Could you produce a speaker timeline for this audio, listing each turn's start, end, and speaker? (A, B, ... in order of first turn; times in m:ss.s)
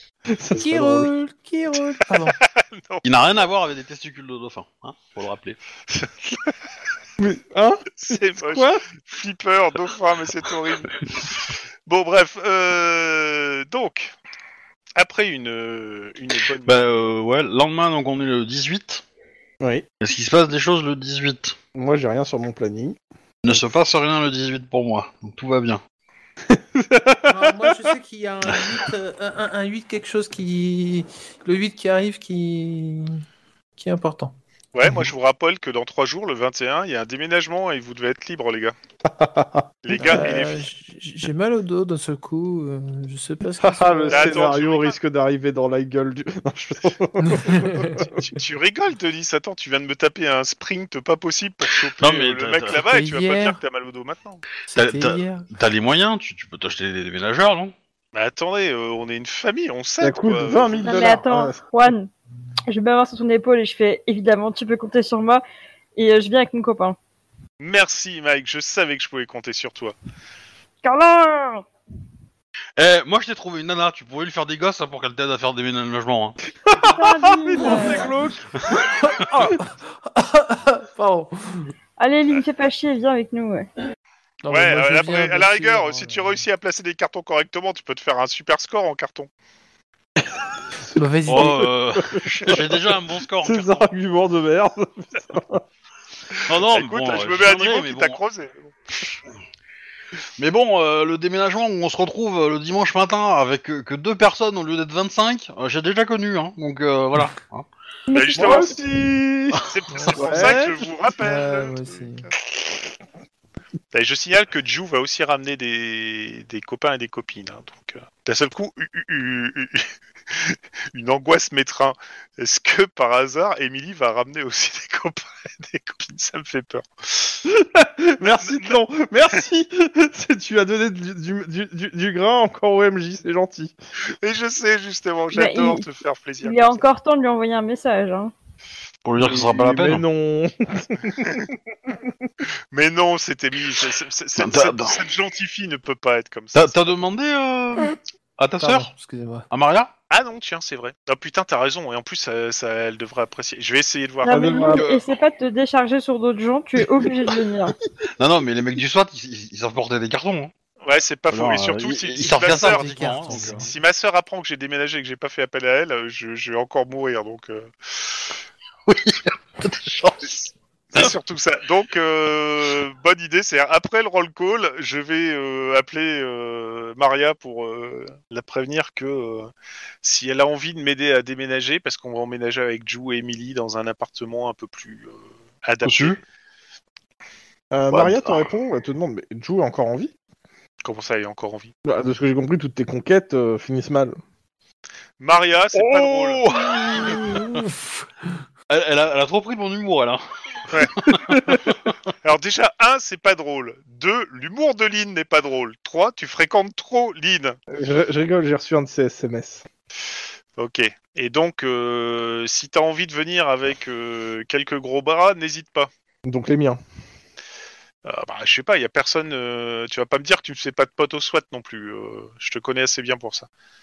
0:00.3-0:01.1 A
0:00.6-0:02.4 B
0:02.2-0:03.4 C
0:03.0-0:05.6 D
0:06.0-0:06.5 C
0:07.2-0:08.8 A
0:08.0-0:11.2 C
0:11.9-0:14.2 C
0:15.0-0:17.1 C
0:16.7-0:19.0 D
0:20.0-0:21.6 D
0:21.8-0:23.0 A
0:23.4-0:25.8 D
0:26.5-0:27.9 A
0:27.3-0:33.2 B
0:33.8-0:35.1 B
0:34.7-0:38.7 C
0:39.0-0:40.2 A
0:39.8-0:40.6 C
0:40.0-0:44.4 B
0:43.6-0:48.1 A
0:44.1-0:45.0 C
0:47.2-0:48.0 B
0:48.0-0:54.4 C
0:52.0-0:52.8 D
0:52.7-0:53.6 B
0:54.7-0:55.5 B
0:54.8-0:57.7 D
0:58.1-1:01.2 C
1:00.0-1:01.9 A
1:00.8-1:02.1 E
1:02.7-1:05.4 E
1:06.0-1:07.0 E
1:07.6-1:10.0 C
1:10.8-1:11.7 E
1:12.8-1:16.4 D
1:16.7-1:18.6 A
1:16.9-1:18.2 E
1:17.6-1:18.3 B
1:18.8-1:21.7 B
1:19.2-1:19.6 A
1:22.0-1:23.7 E
1:24.4-1:26.4 B
1:24.5-1:29.3 C
1:30.9-1:31.7 B
1:31.3-1:33.9 D
1:31.3-1:35.6 A
1:36.5-1:38.2 D
1:36.6-1:39.2 C
1:40.4-1:47.7 D
1:48.1-1:48.6 E
1:48.1-1:48.8 C
1:48.3-1:50.8 A
1:49.6-1:52.1 C
1:49.9-1:50.6 B
1:51.1-1:52.3 B
1:53.9-2:07.4 C
2:07.5-2:13.8 A
2:08.2-2:08.8 C
2:14.2-2:16.8 C
2:15.3-2:15.8 E
2:16.4-2:18.3 E
2:19.0-2:20.0 D
2:19.2-2:21.9 A
2:22.7-2:27.0 C
2:24.4-2:25.0 D
2:26.6-2:28.9 D
2:28.6-2:29.5 B
2:29.5-2:29.9 D
2:30.1-2:34.8 C
2:34.2-2:37.8 E
2:34.3-2:34.9 A
2:34.6-2:35.0 D
2:38.1-2:40.5 D
2:40.8-2:48.3 C
2:41.3-2:43.6 D
2:42.4-2:43.7 B
2:48.9-2:51.1 D
2:50.9-2:59.5 C
3:00.0-3:06.2 C
3:05.8-3:06.2 D
3:07.7-3:10.1 A
3:07.9-3:08.5 D
3:10.8-3:11.7 C
3:11.8-3:14.2 A
3:15.2-3:16.4 C
3:15.7-3:17.6 D
3:18.7-3:21.8 D
3:21.2-3:21.6 A
3:22.2-3:27.6 C
3:27.7-3:29.7 A
3:30.6-3:35.9 C
3:36.2-3:36.8 A
3:38.0-3:43.5 C